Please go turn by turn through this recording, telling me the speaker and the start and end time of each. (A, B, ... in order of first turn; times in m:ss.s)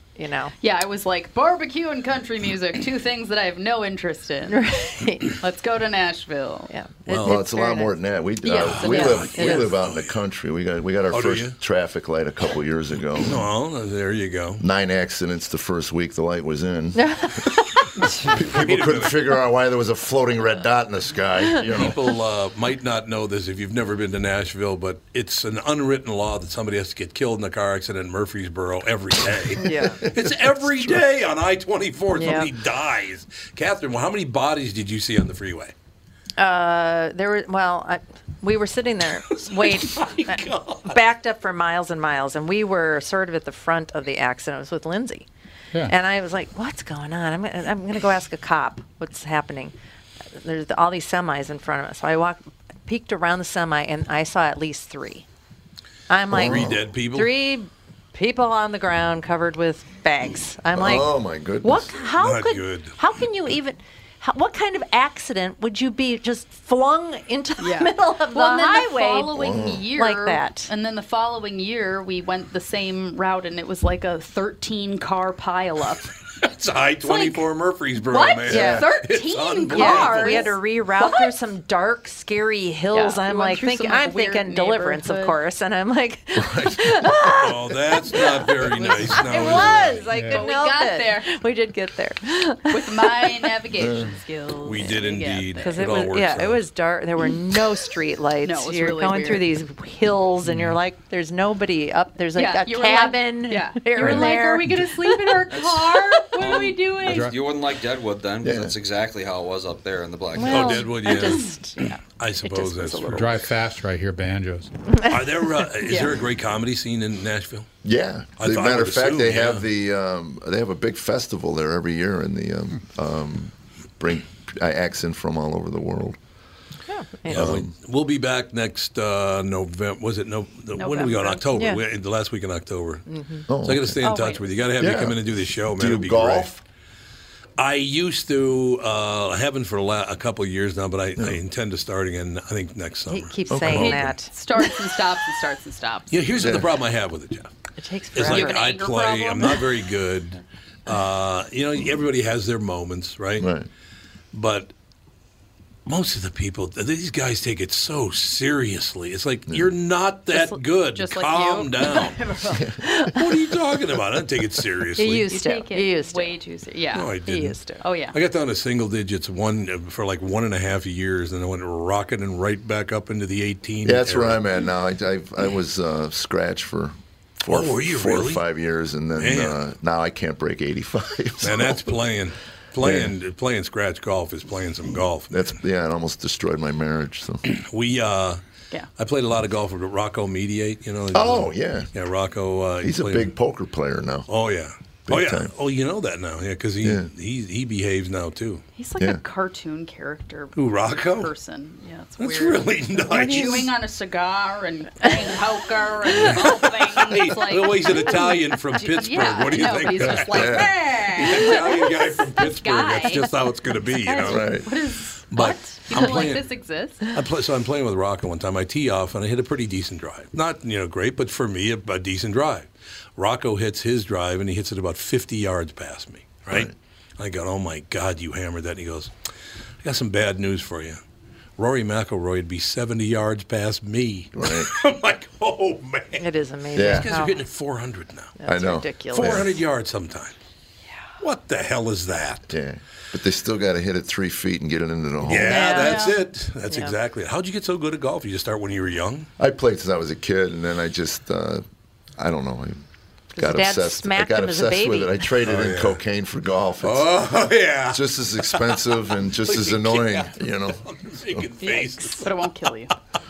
0:00.2-0:00.5 A
0:00.6-0:04.6 B
0:04.5-0:05.4 A
0:05.3-0:06.7 B
0:06.7-0:07.9 A
0:07.0-0:07.4 C
0:07.2-0:13.4 D
0:08.5-0:09.7 A
0:08.5-0:09.3 B
0:08.7-0:10.2 C
0:11.1-0:11.6 C
0:13.2-0:14.6 C
0:14.6-0:17.2 D
0:17.0-0:18.2 A
0:18.2-0:22.0 D
0:18.2-0:19.2 C
0:21.7-0:35.7 C
0:29.6-0:30.0 A
0:30.2-0:31.0 D
0:32.2-0:32.5 A
0:36.4-0:45.3 A
0:39.3-0:41.0 C
0:45.9-0:49.7 A
0:50.4-0:55.2 A
0:56.1-1:01.1 A
0:56.3-0:56.8 D
0:56.3-0:57.3 C
1:00.7-1:01.9 D
1:01.6-1:10.7 A
1:02.2-1:03.0 C
1:07.6-1:16.1 B
1:09.4-1:09.9 D
1:16.4-1:20.5 C
1:17.0-1:21.3 B
1:18.5-1:18.9 A
1:19.7-1:28.5 A
1:22.9-1:25.4 B
1:26.4-1:27.0 D
1:27.3-1:30.0 C
1:28.6-1:31.4 B
1:29.0-1:33.5 A
1:30.1-1:30.5 E
1:32.7-1:36.0 B
1:33.8-1:34.1 D
1:34.6-1:36.6 C
1:35.6-1:45.5 A
1:38.4-1:39.4 B
1:40.4-1:40.8 E
1:42.4-1:47.3 B
1:44.0-1:44.3 E
1:45.5-1:45.8 F
1:46.4-1:50.9 F
1:47.0-1:47.4 E
1:48.4-1:48.8 D
1:50.3-1:51.9 A
1:50.5-1:53.4 C
1:51.2-1:52.0 B
1:52.4-1:53.3 A
1:53.1-1:54.7 E
1:55.0-1:56.1 A
1:55.1-1:57.7 C
1:57.8-2:06.2 D
1:58.4-1:59.7 C
2:06.9-2:07.5 A
2:07.3-2:07.7 D
2:07.3-2:16.5 C
2:10.8-2:11.4 B
2:11.5-2:11.8 A
2:13.1-2:13.5 A
2:13.5-2:14.0 D
2:14.0-2:14.6 B
2:14.8-2:16.6 D
2:17.6-2:23.9 C
2:23.1-2:24.3 A
2:23.5-2:24.2 D
2:23.7-2:26.1 B
2:26.1-2:27.5 C
2:26.4-2:26.7 D
2:27.8-2:28.6 A
2:28.1-2:33.5 C
2:28.2-2:29.7 B
2:33.4-2:33.7 D
2:34.3-2:34.7 C
2:35.9-2:42.2 C
2:40.3-2:42.7 B
2:42.8-2:43.4 A
2:43.2-2:45.3 C
2:45.0-2:46.4 A
2:45.3-2:47.2 B
2:46.9-2:47.6 C
2:47.2-2:47.8 A
2:47.8-2:48.2 B
2:48.1-2:54.4 C
2:53.8-3:01.9 D
2:57.5-2:58.4 C
2:59.2-2:59.6 C
3:01.4-3:05.4 C
3:02.8-3:03.1 D
3:05.3-3:07.4 D
3:07.5-3:08.4 C
3:09.0-3:13.3 C
3:11.1-3:11.9 D
3:12.8-3:14.3 D
3:14.3-3:18.6 C
3:15.1-3:15.5 D
3:16.8-3:17.1 D
3:18.8-3:33.3 B
3:20.6-3:21.3 C
3:22.2-3:23.7 C
3:23.1-3:23.5 A
3:26.1-3:34.4 C
3:30.2-3:30.7 D
3:34.1-3:34.3 A
3:34.1-3:37.1 B
3:34.2-3:34.7 D
3:35.3-3:36.5 C
3:37.0-3:49.1 C
3:49.8-3:51.0 C
3:51.6-3:58.3 C
3:54.3-3:54.7 D
3:56.2-3:57.4 A
3:56.7-3:57.1 D
3:58.4-3:59.6 A
3:58.4-3:59.5 D
3:59.1-4:00.3 C
4:01.2-4:02.5 C
4:02.5-4:05.7 D
4:05.2-4:09.3 C
4:05.4-4:06.2 A
4:05.6-4:06.2 B
4:06.7-4:07.0 A
4:09.4-4:11.6 D
4:12.2-4:12.8 D
4:13.4-4:15.2 A
4:13.4-4:17.2 D
4:15.4-4:16.0 C
4:16.8-4:22.3 C
4:17.9-4:20.8 D
4:21.7-4:22.9 B